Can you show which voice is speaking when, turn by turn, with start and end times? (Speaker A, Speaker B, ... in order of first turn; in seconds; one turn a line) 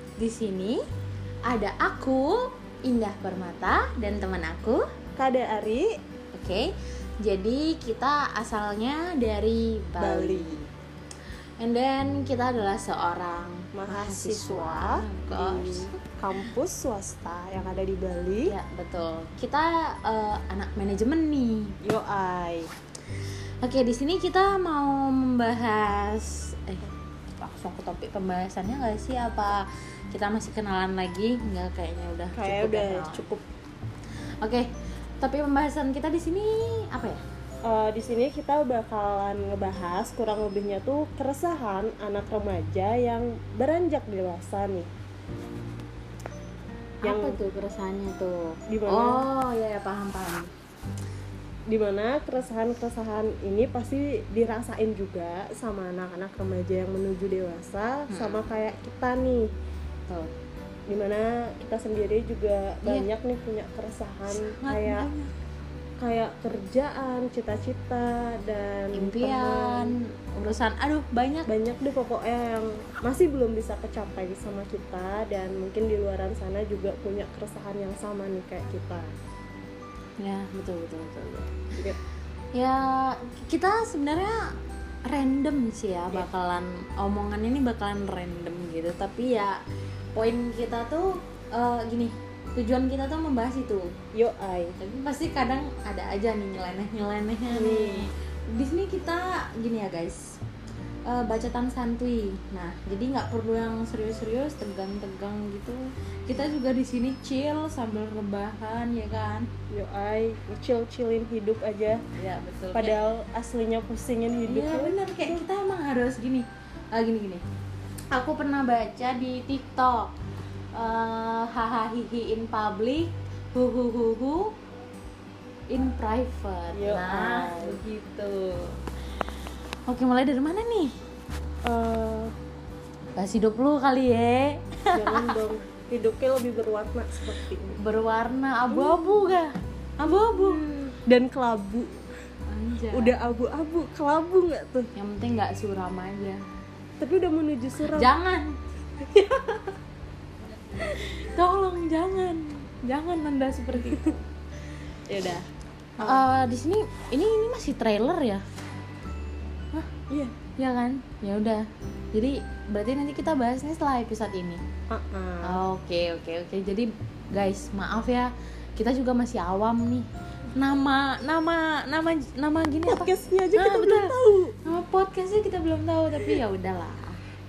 Speaker A: 0.2-0.8
Speaker A: 1.5-4.8
Speaker B: 5.2-5.9
Speaker A: 6.3-6.7
Speaker A: 7.2-10.7
Speaker B: 10.0-10.5
Speaker A: 11.6-15.9
Speaker B: 13.7-18.6
Speaker A: 18.5-21.8
Speaker B: 21.8-22.7
Speaker A: 23.6-33.3
Speaker B: 32.4-33.4
Speaker A: 34.4-34.7
Speaker A: 35.2-37.2
Speaker B: 37.6-44.9
Speaker A: 47.0-50.5
Speaker B: 47.0-47.4
Speaker B: 48.7-49.3
Speaker B: 51.7-59.5
Speaker A: 58.1-58.5
Speaker B: 60.9-65.1
Speaker A: 64.3-65.3
Speaker B: 66.0-70.0
Speaker A: 69.0-71.5
Speaker B: 71.5-79.1
Speaker A: 80.2-81.7
Speaker A: 82.5-89.6
Speaker A: 90.2-94.0
Speaker B: 94.1-94.8
Speaker A: 94.8-100.4
Speaker B: 97.5-98.1
Speaker A: 101.1-109.5
Speaker B: 109.7-112.0
Speaker A: 112.2-113.0
Speaker B: 112.7-115.4
Speaker A: 114.5-117.4
Speaker A: 118.1-120.2
Speaker A: 120.7-124.5
Speaker A: 125.7-128.8
Speaker B: 126.7-127.8
Speaker A: 129.9-130.9
Speaker B: 131.6-132.3
Speaker A: 133.2-135.3
Speaker B: 134.9-137.8
Speaker A: 137.8-140.6
Speaker B: 138.7-139.3
Speaker B: 140.1-142.0
Speaker A: 142.5-143.2
Speaker B: 142.9-144.9
Speaker A: 145.0-146.4
Speaker B: 147.0-148.1
Speaker A: 147.9-148.6
Speaker A: 149.1-149.5
Speaker A: 150.8-154.2
Speaker B: 155.1-155.4
Speaker B: 156.0-156.3
Speaker A: 156.0-158.4
Speaker B: 160.1-160.3
Speaker A: 160.6-164.6
Speaker B: 164.9-165.6
Speaker A: 165.4-177.2
Speaker B: 172.9-174.6